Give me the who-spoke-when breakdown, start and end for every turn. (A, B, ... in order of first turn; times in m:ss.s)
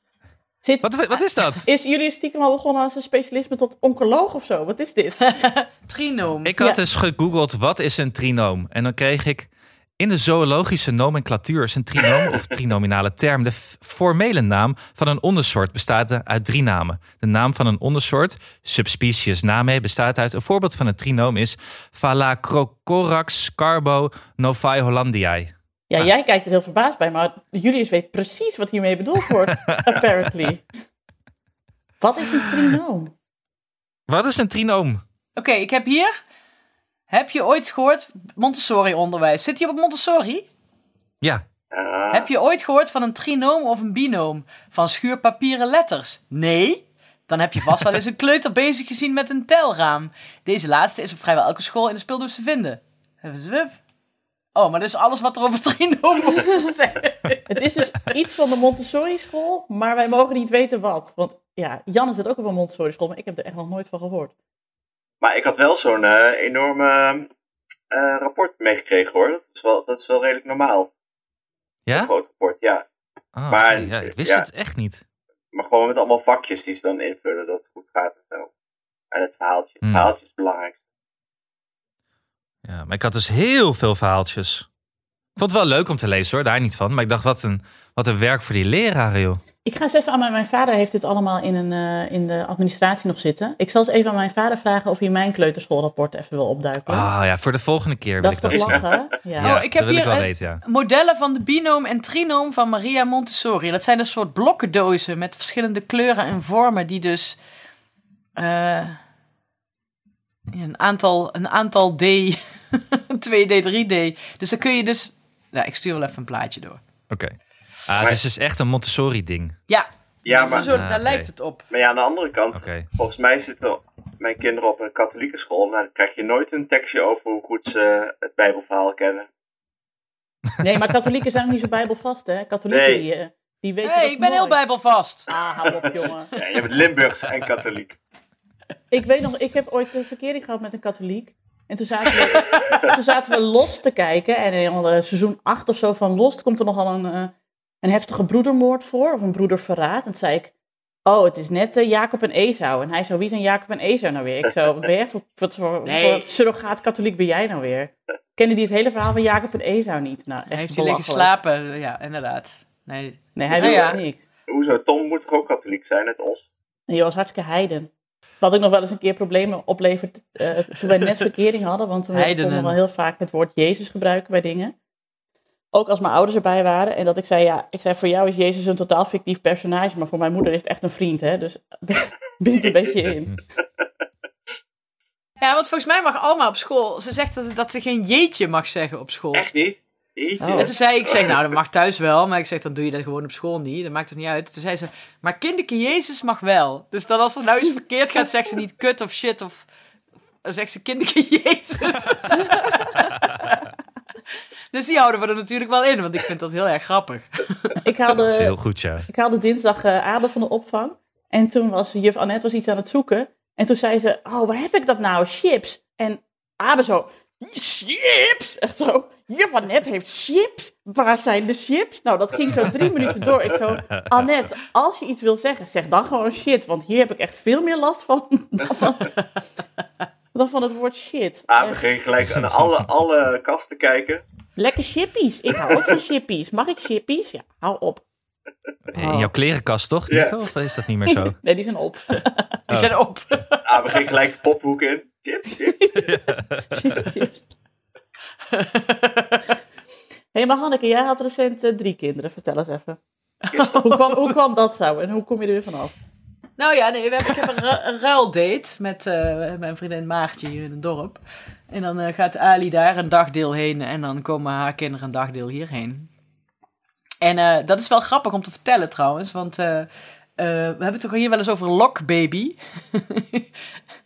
0:00.6-0:05.4 A
0:00.8-0:01.6 B
0:05.2-0:06.5 C
0:06.4-0:26.1 B
0:25.9-0:30.6 A
0:32.0-0:33.1 A
0:34.1-0:35.0 B
0:35.4-0:36.2 C
0:37.1-0:40.5 C
0:41.7-0:42.3 D
0:42.1-0:53.8 C
0:54.5-0:57.5 C
0:57.5-1:04.3 A
1:05.2-1:07.3 D
1:07.9-1:10.9 D
1:11.8-1:12.1 B
1:11.9-1:12.8 D
1:13.3-1:15.0 B
1:13.5-1:14.4 D
1:15.5-1:18.5 D
1:19.1-1:20.8 D
1:19.8-1:20.1 B
1:22.6-1:24.7 B
1:25.4-1:29.4 B
1:29.6-1:37.1 A
1:36.9-1:38.8 B
1:38.2-1:39.6 A
1:38.5-1:39.0 D
1:39.4-1:40.6 B
1:39.4-1:47.4 C
1:48.4-1:49.0 C
1:50.5-1:56.8 C
1:57.1-1:59.6 B
1:59.7-2:01.6 C
2:00.2-2:00.7 D
2:00.6-2:01.3 B
2:01.7-2:09.3 D
2:02.5-2:02.9 B
2:10.6-2:14.6 A
2:12.7-2:13.0 D
2:13.8-2:15.3 C
2:15.3-2:16.3 A
2:16.3-2:18.0 D
2:18.9-2:30.5 A
2:22.1-2:22.6 C
2:22.4-2:22.8 D
2:31.0-2:41.3 A
2:35.8-2:36.3 C
2:40.5-2:44.0 C
2:43.4-2:44.2 A
2:43.5-2:44.0 D
2:44.5-2:46.5 D
2:46.9-2:47.9 A
2:48.4-2:54.7 A
2:52.1-2:52.8 C
2:55.7-3:03.3 A
3:05.4-3:09.4 C
3:09.3-3:11.4 D
3:10.4-3:10.7 A
3:10.5-3:19.7 C
3:20.4-3:23.0 C
3:24.7-3:27.8 C
3:27.8-3:28.6 A
3:28.1-3:29.1 B
3:29.1-3:49.2 A
3:43.9-3:44.3 B
3:50.3-3:51.9 A
3:51.5-3:54.2 D
3:52.3-3:52.8 B
3:54.6-3:58.0 A
3:55.7-3:56.0 D
3:58.9-4:01.4 B
3:59.0-3:59.3 A
4:00.1-4:00.4 D
4:01.1-4:02.6 A
4:02.7-4:02.9 B
4:02.7-4:03.6 C
4:03.6-4:06.1 D
4:05.8-4:06.1 A
4:06.0-4:07.0 B
4:06.7-4:07.4 A
4:08.5-4:09.4 C
4:10.3-4:13.0 A
4:13.5-4:14.3 C
4:13.6-4:15.9 A
4:16.6-4:26.1 C
4:27.2-4:33.5 C